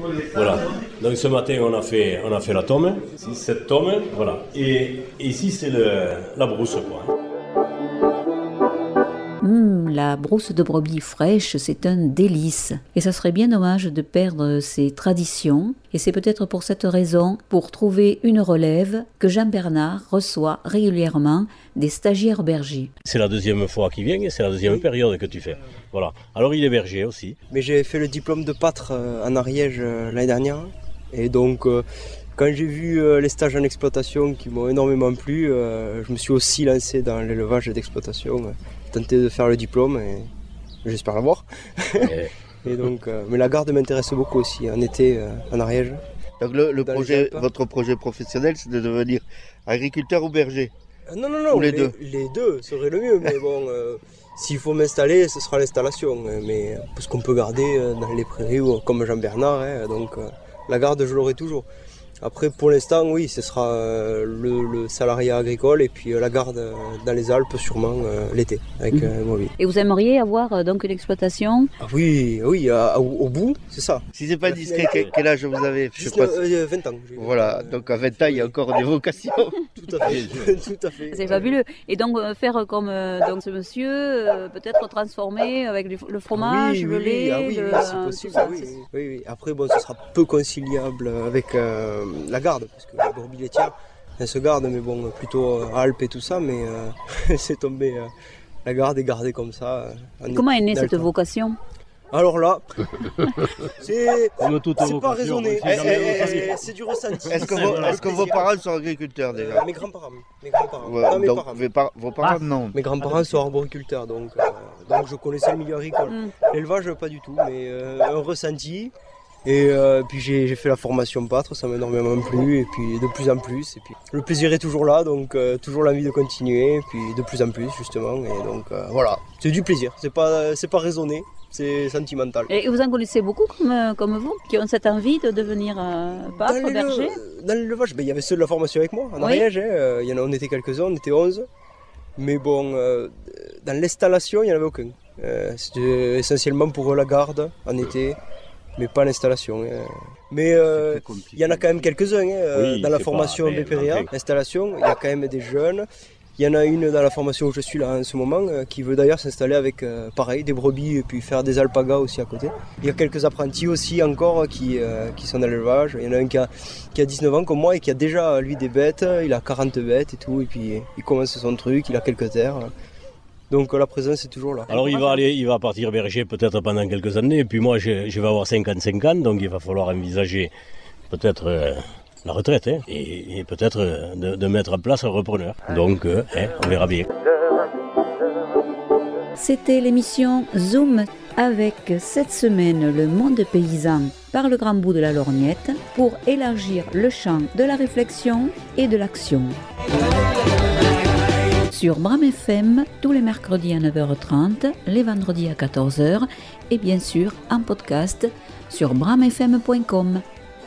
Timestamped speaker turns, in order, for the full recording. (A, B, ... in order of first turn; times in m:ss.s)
0:00.3-0:07.1 A
0:09.4-0:22.9 B
0:23.0-0:27.4 A
0:27.5-0:31.8 C
0:32.4-0:40.3 C
0:40.8-0:46.0 C
0:42.0-0:42.3 A
0:46.4-0:50.7 D
0:46.8-0:47.5 C
0:51.1-1:01.7 C
0:51.5-0:51.9 D
1:02.2-1:09.5 C
1:08.9-1:11.7 B
1:11.8-1:15.2 C
1:14.2-1:16.4 D
1:15.9-1:18.6 C
1:17.2-1:19.6 D
1:19.8-1:21.6 C
1:20.0-1:20.7 A
1:21.1-1:28.8 B
1:26.3-1:38.1 C
1:38.6-1:41.1 C
1:40.3-1:41.6 B
1:42.1-1:48.6 C
1:44.4-1:46.7 A
1:45.6-1:46.4 D
1:47.2-1:48.1 A
1:47.3-1:49.7 D
1:49.3-1:51.6 C
1:50.8-1:52.8 D
1:52.7-1:58.9 C
1:53.0-1:53.4 A
1:56.1-1:56.3 B
1:59.4-2:12.5 C
2:12.5-2:17.2 B
2:16.4-2:21.5 C
2:19.2-2:19.5 B
2:22.2-2:28.2 C
2:28.8-2:35.9 C
2:30.6-2:32.0 A
2:32.5-2:34.1 A
2:36.4-2:52.7 C
2:53.5-2:54.8 C
2:54.7-3:00.5 A
2:54.7-2:55.2 B
3:01.1-3:07.1 A
3:09.4-3:19.6 B
3:21.7-3:30.2 B